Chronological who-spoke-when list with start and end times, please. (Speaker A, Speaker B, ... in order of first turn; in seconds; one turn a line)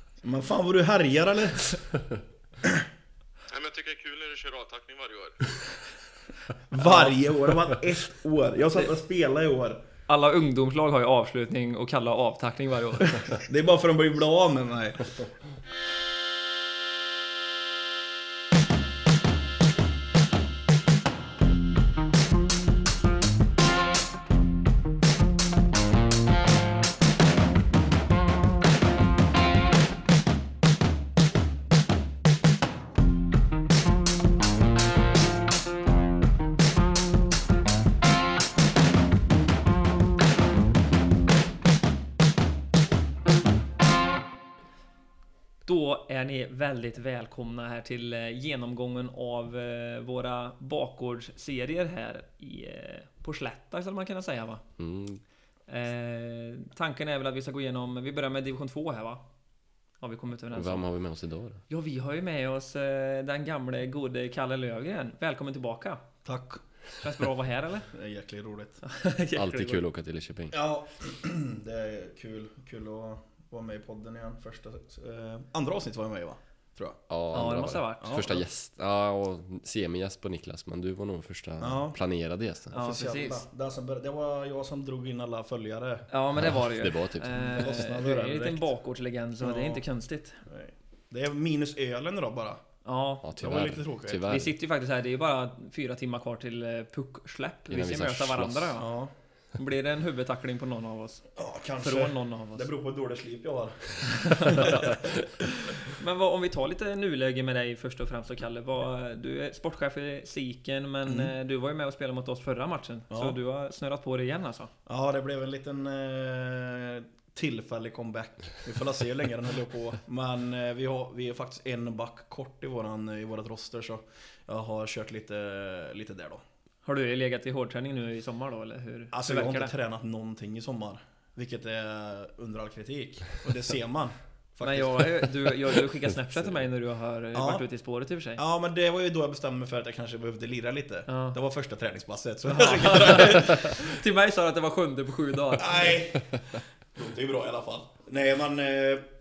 Speaker A: 0.2-1.8
Speaker B: 3.5-5.8
Speaker A: 6.7-9.8
Speaker C: 6.8-7.2
Speaker C: 10.1-13.3
Speaker A: 13.2-15.3
Speaker C: 45.7-54.6
Speaker D: 54.8-55.2
Speaker C: 55.7-59.2
Speaker C: 60.0-60.9
Speaker D: 60.5-61.6
Speaker C: 61.7-66.0
Speaker A: 66.2-66.6
Speaker C: 67.0-67.9
Speaker A: 67.9-68.8
Speaker C: 68.8-69.8
Speaker D: 69.4-70.6
Speaker A: 70.5-77.0
Speaker D: 77.1-82.7
Speaker C: 77.3-78.2
Speaker A: 78.0-78.5
Speaker A: 81.6-82.0
Speaker C: 82.7-83.5
Speaker A: 82.7-86.1
Speaker C: 86.1-90.4
Speaker D: 86.4-87.8
Speaker A: 87.4-88.7
Speaker A: 89.4-89.8
Speaker A: 90.5-92.6
Speaker C: 92.8-93.3
Speaker D: 93.2-94.5
Speaker A: 93.4-94.3
Speaker C: 94.3-98.9
Speaker D: 97.7-98.8
Speaker A: 98.8-99.1
Speaker C: 99.5-101.3
Speaker A: 101.3-105.1
Speaker C: 101.8-102.7
Speaker C: 104.1-114.7
Speaker A: 111.1-111.3
Speaker A: 113.1-113.4
Speaker A: 114.9-126.4
Speaker C: 126.8-129.7
Speaker A: 129.1-135.8
Speaker C: 134.6-138.4
Speaker A: 137.3-137.6
Speaker A: 138.4-144.0
Speaker C: 141.1-141.4
Speaker C: 142.5-146.0
Speaker A: 145.5-149.1